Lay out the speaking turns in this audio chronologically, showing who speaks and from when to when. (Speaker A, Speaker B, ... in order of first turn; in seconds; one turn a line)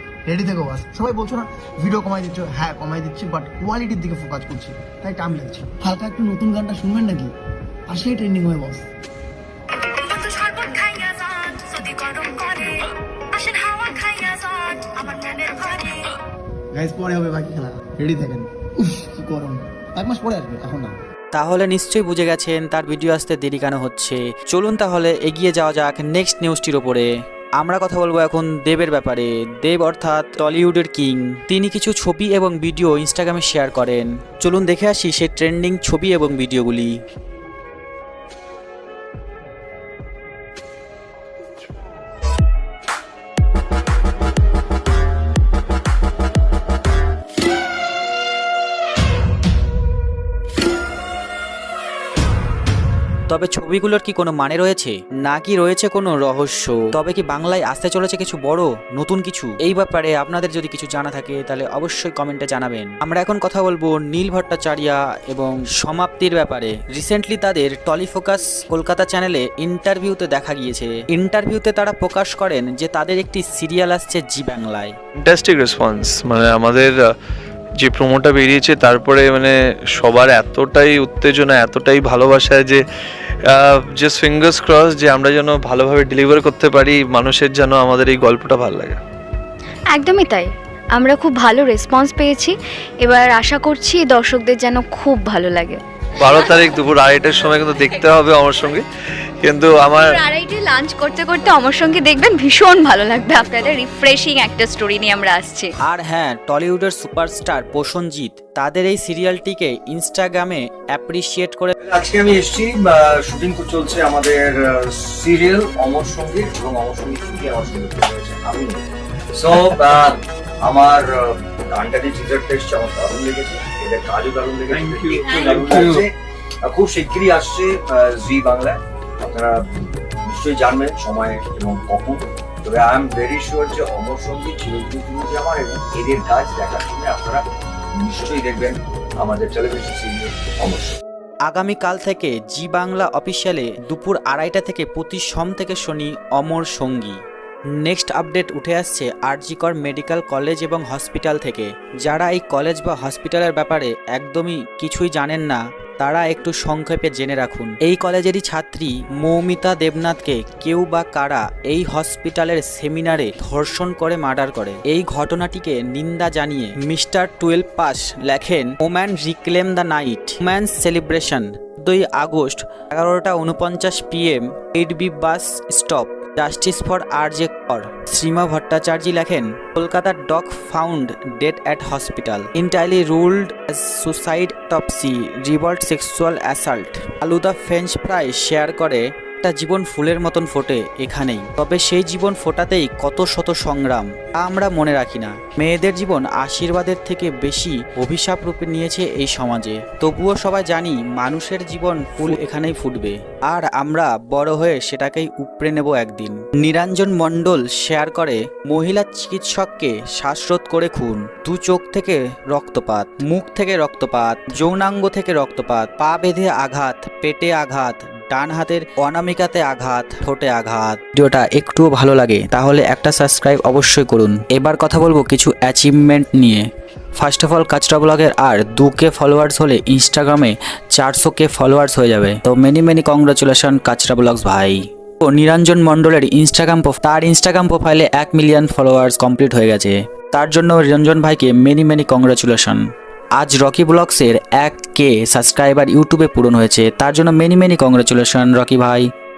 Speaker A: 0.3-7.3
Speaker A: 7.9-8.9
Speaker B: 9.9-16.1
Speaker A: 16.7-21.0
Speaker C: 21.3-37.0
Speaker C: 53.3-75.0
Speaker D: 75.2-77.0
Speaker D: 77.8-82.8
Speaker D: 83.5-89.0
Speaker B: 89.9-95.8
Speaker D: 96.2-98.9
Speaker D: 99.4-100.2
Speaker B: 100.0-105.7
Speaker C: 105.8-111.7
Speaker E: 111.8-118.8
Speaker E: 119.3-137.4
Speaker D: 124.7-126.0
Speaker E: 137.9-141.0
Speaker C: 141.5-147.2
Speaker C: 147.8-242.8
Speaker C: 243.4-249.1